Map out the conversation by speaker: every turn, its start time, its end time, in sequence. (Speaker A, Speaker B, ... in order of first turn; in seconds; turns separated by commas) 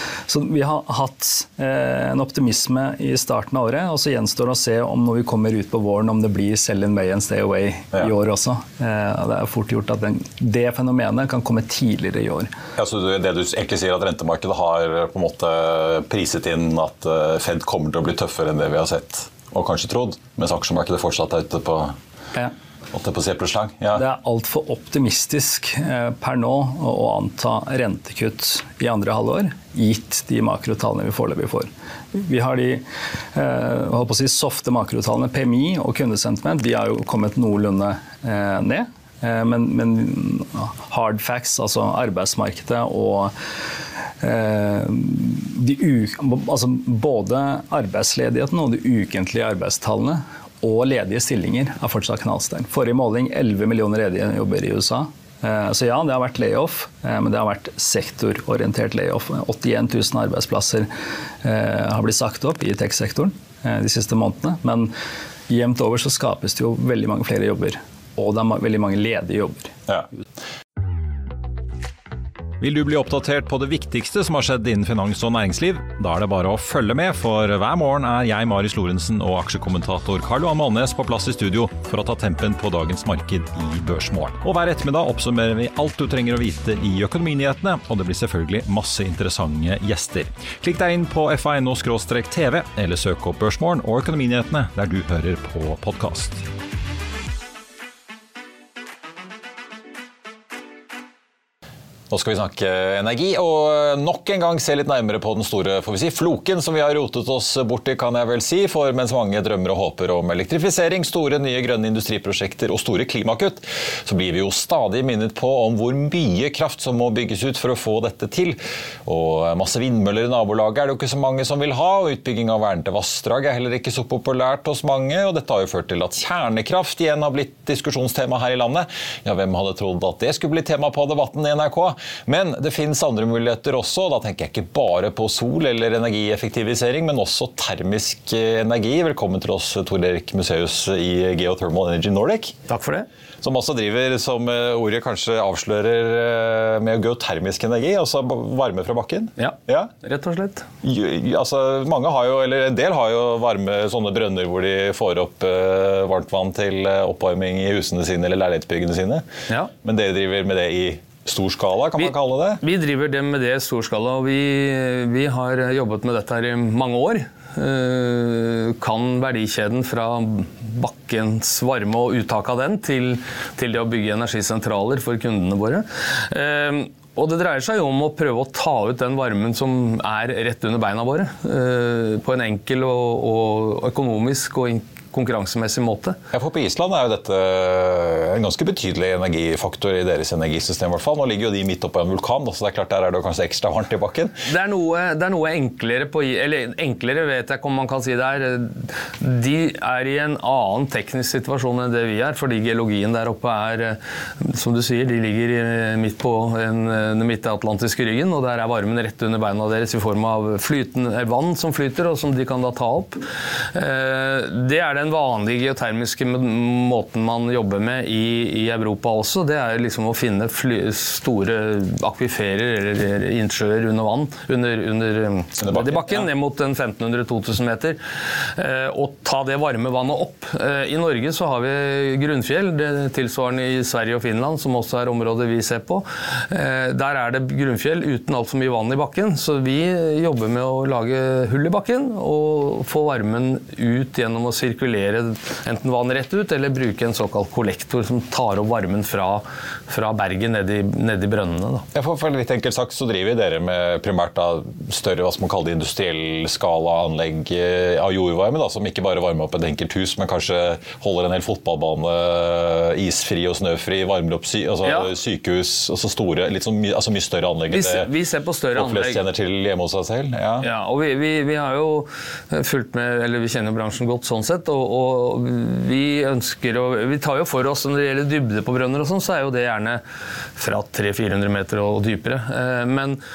Speaker A: 0.3-12.5, Speaker B: 12.8-21.9, Speaker B: 22.9-24.0, Speaker A: 23.9-43.3, Speaker A: 44.2-60.9, Speaker A: 61.4-64.9, Speaker A: 65.5-69.7, Speaker B: 72.6-96.4, Speaker B: 102.1-142.6, Speaker C: 142.7-143.1, Speaker B: 143.4-149.9, Speaker C: 149.4-150.7, Speaker B: 150.8-159.2, Speaker B: 159.8-162.6, Speaker C: 162.0-186.2, Speaker B: 186.3-194.3, Speaker C: 194.5-213.2, Speaker C: 213.7-228.0, Speaker B: 225.6-226.3, Speaker C: 228.5-251.9, Speaker B: 251.9-268.1, Speaker C: 264.8-265.1, Speaker C: 267.7-269.2, Speaker B: 268.8-270.7, Speaker C: 270.6-280.0, Speaker C: 280.6-283.2